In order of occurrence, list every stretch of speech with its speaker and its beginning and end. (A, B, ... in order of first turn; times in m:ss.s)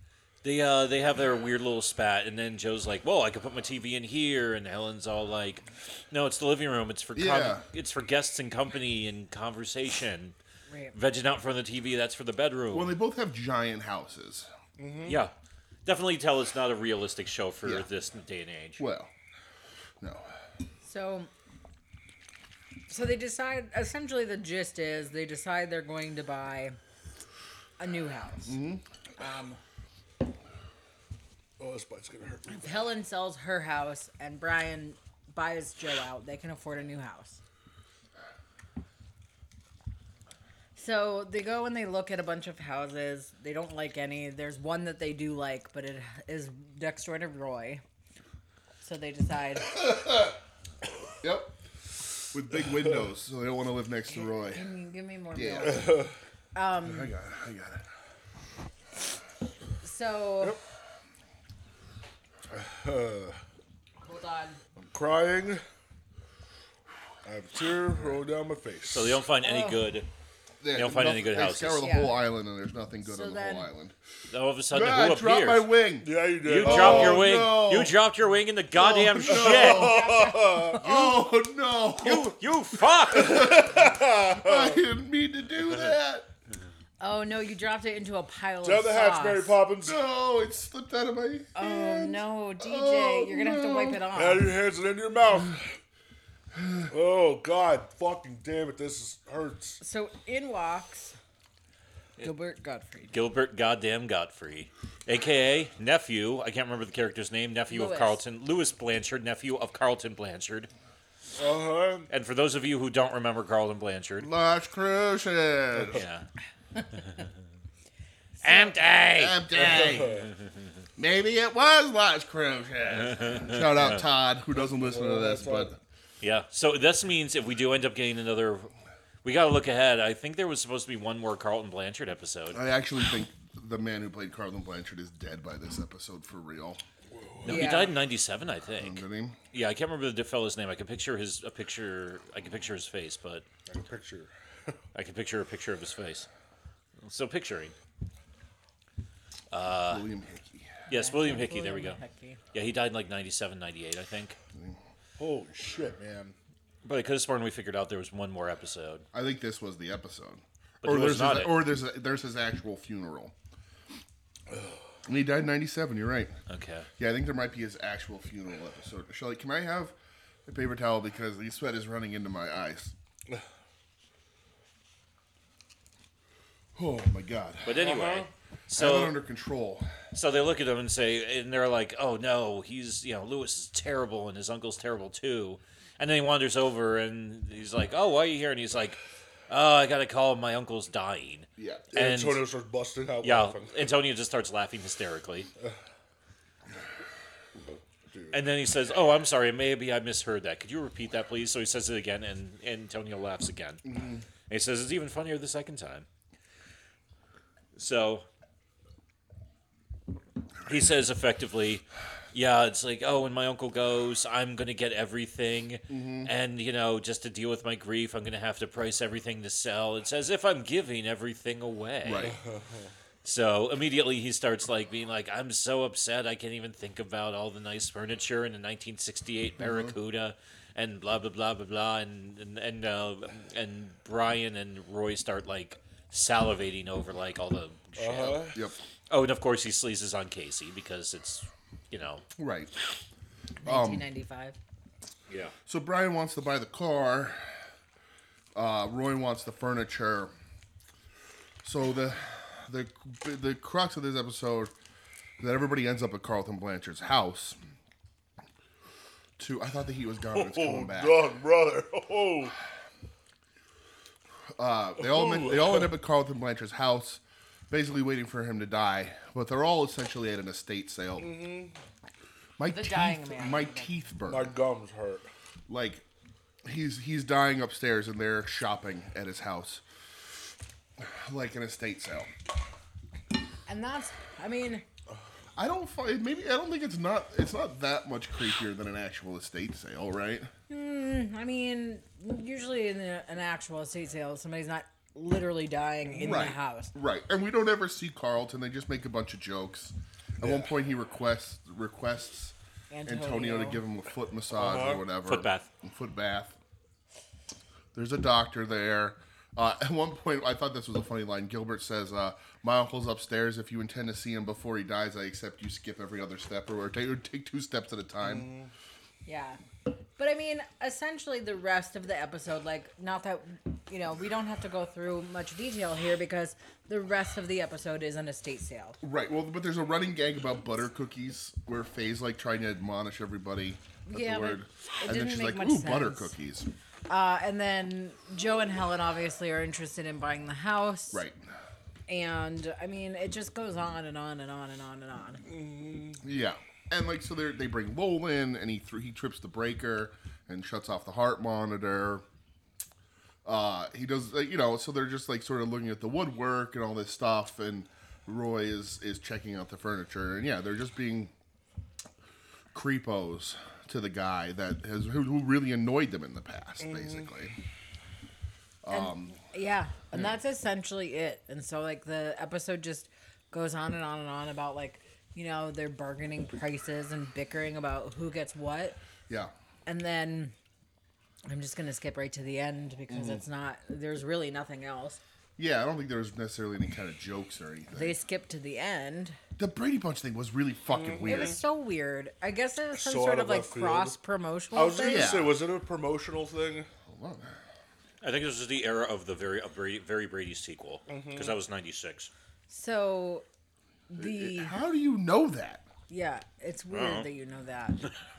0:00.4-0:10.4 A
0:07.2-0:07.6 B
0:10.7-0:11.0 C
0:10.9-0:12.9 A
0:12.7-0:14.5 B
0:14.8-0:15.2 D
0:15.0-0:15.3 A
0:15.8-0:18.8 A
0:18.8-0:19.1 B
0:20.0-0:20.3 B
0:20.8-0:21.3 C
0:22.9-0:26.8 C
0:27.8-0:28.6 C
0:28.5-0:28.8 B
0:29.2-0:29.6 C
0:31.6-0:32.8 D
0:32.5-0:37.4 C
0:40.8-0:47.8 C
0:48.8-0:49.8 C
0:51.2-0:51.6 B
0:52.3-0:54.6 B
0:54.2-0:56.0 C
0:55.3-0:55.9 B
0:55.6-0:56.2 D
0:56.6-0:57.2 C
0:56.8-0:57.8 B
0:59.8-1:00.6 C
1:02.5-1:03.4 D
1:04.0-1:04.6 C
1:04.8-1:05.6 D
1:07.2-1:09.2 D
1:08.9-1:10.1 A
1:09.4-1:09.8 C
1:10.6-1:14.0 B
1:10.8-1:11.8 A
1:11.8-1:12.2 C
1:13.0-1:13.7 C
1:14.3-1:15.7 A
1:14.7-1:18.0 B
1:16.0-1:17.4 D
1:16.4-1:20.0 A
1:18.8-1:20.1 B
1:19.2-1:20.9 D
1:19.6-1:21.0 C
1:20.7-1:22.4 B
1:22.0-1:23.5 A
1:23.1-1:24.8 D
1:23.1-1:26.3 B
1:27.0-1:29.6 C
1:28.6-1:30.0 D
1:29.8-1:34.0 B
1:31.6-1:34.5 C
1:34.1-1:35.8 D
1:36.6-1:36.8 B
1:36.9-1:39.8 D
1:39.8-1:41.2 C
1:42.2-1:43.2 C
1:43.1-1:50.7 A
1:47.7-1:48.2 C
1:51.4-1:52.1 D
1:52.1-1:54.3 A
1:54.2-1:56.0 B
1:55.9-1:56.3 A
1:58.4-1:58.7 C
1:58.4-2:00.0 A
1:59.1-2:00.2 B
1:59.5-2:00.3 D
2:01.0-2:05.8 B
2:02.9-2:04.0 A
2:04.6-2:05.8 D
2:06.2-2:08.7 A
2:09.2-2:12.6 A
2:12.5-2:16.8 B
2:17.1-2:17.8 D
2:17.4-2:23.4 A
2:17.5-2:18.0 C
2:18.8-2:19.4 B
2:23.7-2:24.8 D
2:24.9-2:26.3 A
2:27.0-2:27.7 A
2:29.5-2:30.1 A
2:29.9-2:30.8 B
2:30.9-2:32.0 A
2:30.9-2:32.4 C
2:32.5-2:34.4 A
2:35.2-2:36.4 D
2:36.8-2:39.0 A
2:39.1-2:43.3 B
2:40.8-2:41.6 A
2:45.1-2:46.3 B
2:46.5-2:46.9 A
2:47.0-2:50.0 B
2:50.5-2:52.9 B
2:56.8-2:58.2 B
2:57.6-2:59.2 A
2:58.7-2:59.9 B
3:00.1-3:09.0 A
3:09.5-3:12.5 A
3:11.6-3:11.9 B
3:11.9-3:13.8 D
3:13.2-3:15.5 A
3:18.1-3:18.4 D
3:18.3-3:23.8 A
3:23.9-3:24.2 B
3:24.5-3:26.1 A
3:27.8-3:28.2 A
3:30.7-3:42.3 A
3:35.9-3:36.3 B
3:42.0-3:42.4 B
3:42.2-3:42.9 D
3:43.2-3:58.5 A
3:49.6-3:49.9 B
3:58.0-3:58.6 D
3:59.1-4:02.2 A
4:02.4-4:02.7 B
4:03.6-4:04.6 C
4:03.6-4:04.1 B
4:05.3-4:05.5 A
4:05.7-4:07.4 B
4:08.6-4:10.3 B
4:11.6-4:14.7 B
4:15.4-4:17.6 B
4:19.4-4:21.2 B
4:20.3-4:22.6 D
4:24.6-4:31.4 B
4:25.0-4:25.9 D
4:31.2-4:31.8 D
4:32.6-4:34.5 B
4:32.6-4:33.9 C
4:34.3-4:35.3 D
4:35.7-4:36.0 B
4:36.6-4:39.8 B
4:41.0-4:42.3 B
4:43.7-4:44.8 C
4:45.6-4:50.5 B
4:50.7-4:56.9 C
4:56.2-5:02.6 B
5:00.4-5:00.7 D
5:02.9-5:03.8 C
5:03.1-5:06.6 B
5:04.6-5:05.0 D
5:05.2-5:05.7 A
5:07.9-5:18.5 B
5:18.2-5:18.7 D
5:19.3-5:19.6 C
5:20.2-5:29.0 C
5:29.0-5:36.7 B
5:34.1-5:36.3 C
5:37.1-5:41.2 C
5:41.1-5:41.4 B
5:42.1-5:45.4 C
5:45.5-5:46.2 D
5:46.2-5:52.2 B
5:53.4-6:01.3 B
6:02.7-6:07.6 B
6:06.8-6:07.3 D
6:08.8-6:09.4 B
6:08.9-6:19.0 C
6:19.9-6:20.5 C
6:21.5-6:25.2 C
6:23.1-6:23.4 B
6:25.6-6:28.2 B
6:27.9-6:29.4 C
6:29.6-6:31.6 B
6:30.9-6:31.6 D
6:31.2-6:35.3 C
6:32.9-6:34.2 D
6:34.8-6:36.9 D
6:35.0-6:35.6 B
6:37.1-6:37.6 B
6:38.2-6:42.3 A
6:41.1-6:41.6 D
6:42.7-6:43.4 C
6:44.1-6:44.8 C
6:44.2-6:45.8 B
6:46.1-6:48.1 C
6:46.9-6:47.3 A